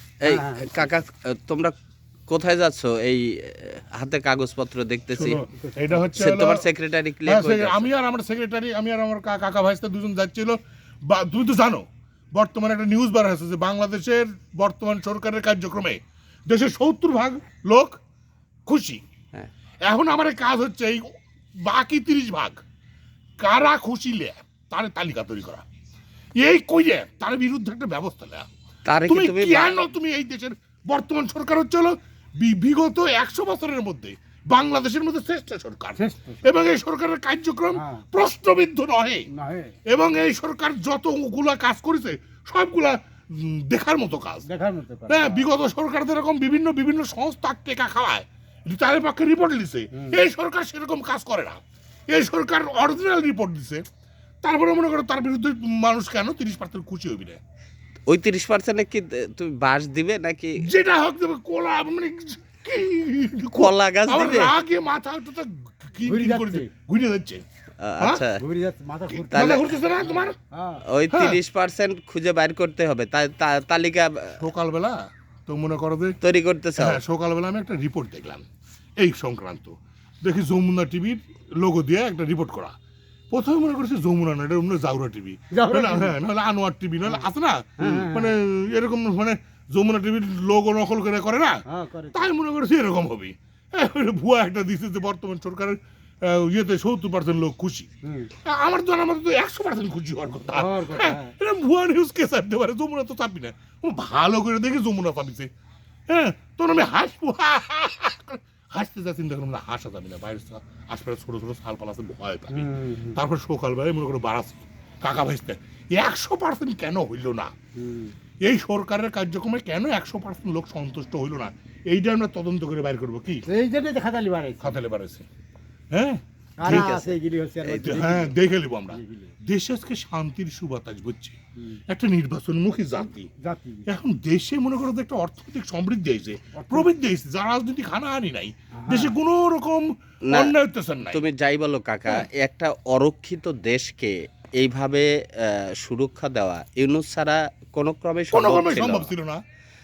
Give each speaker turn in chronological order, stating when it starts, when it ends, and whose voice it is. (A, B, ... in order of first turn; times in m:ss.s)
0:00.2-0:01.7 A
0:00.2-0:01.0 B
0:02.3-0:05.4 A
0:05.1-0:06.6 C
0:05.3-0:06.0 B
0:06.2-0:07.9 A
0:07.2-0:18.0 C
0:18.7-0:19.0 C
0:19.8-0:21.1 C
0:21.6-0:22.6 C
0:23.4-0:25.6 C
0:26.4-0:28.5 C
0:28.8-0:29.8 A
0:29.0-0:39.3 C
0:36.0-0:36.5 B
0:37.7-0:38.1 B
0:39.3-0:39.8 B
0:39.9-0:44.5 C
0:44.4-0:45.5 B
0:45.1-0:53.8 C
0:49.9-0:50.2 B
0:54.4-0:57.4 C
0:58.1-1:00.6 A
1:00.6-1:07.4 C
1:03.5-1:04.5 A
1:06.0-1:06.7 B
1:07.8-1:08.4 A
1:08.4-1:10.8 B
1:09.1-1:10.4 C
1:09.3-1:09.7 A
1:10.8-1:14.4 A
1:11.1-1:11.4 C
1:14.4-1:16.2 C
1:16.2-1:17.0 A
1:16.8-1:18.4 C
1:19.0-1:22.7 C
1:23.3-1:31.6 C
1:25.5-1:26.2 B
1:27.8-1:28.4 B
1:31.7-1:32.3 B
1:32.1-1:37.9 C
1:38.0-1:38.3 B
1:38.4-1:45.5 C
1:40.4-1:41.3 B
1:46.1-1:57.5 C
1:52.5-1:53.2 B
1:57.8-1:58.1 B
1:58.4-2:03.4 C
2:03.5-2:04.8 B
2:04.6-2:05.3 C
2:05.9-2:06.9 C
2:06.6-2:09.4 B
2:06.6-2:08.2 A
2:07.8-2:13.3 C
2:13.4-2:13.9 B
2:13.8-2:21.2 C
2:16.6-2:16.9 B
2:18.7-2:19.2 B
2:20.3-2:20.5 A
2:21.1-2:29.1 A
2:28.3-2:29.4 C